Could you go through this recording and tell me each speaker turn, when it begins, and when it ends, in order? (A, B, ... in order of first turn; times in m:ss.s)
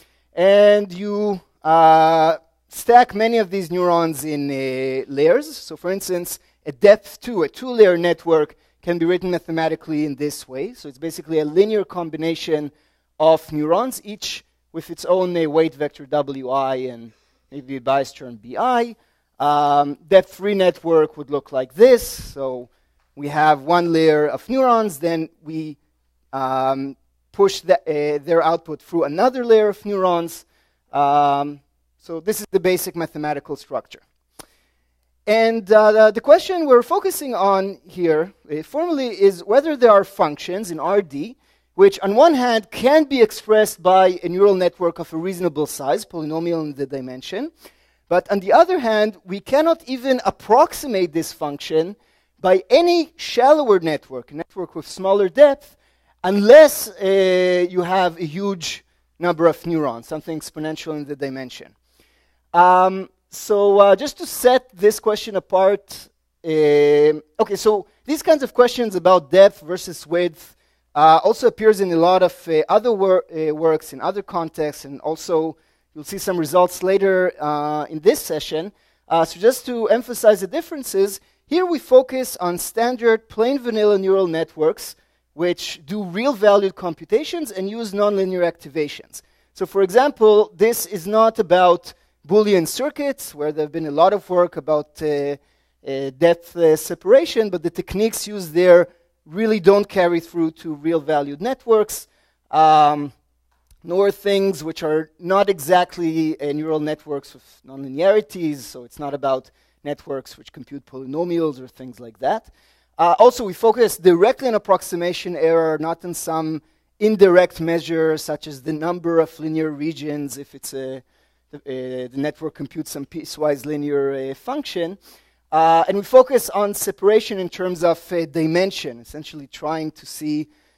0:00.3-0:25.8 A
0:26.3-0:34.0 A
0:35.3-0:47.5 A
0:48.1-1:01.7 A
1:02.5-1:43.1 A
1:43.8-2:05.0 A
2:05.5-2:10.5 A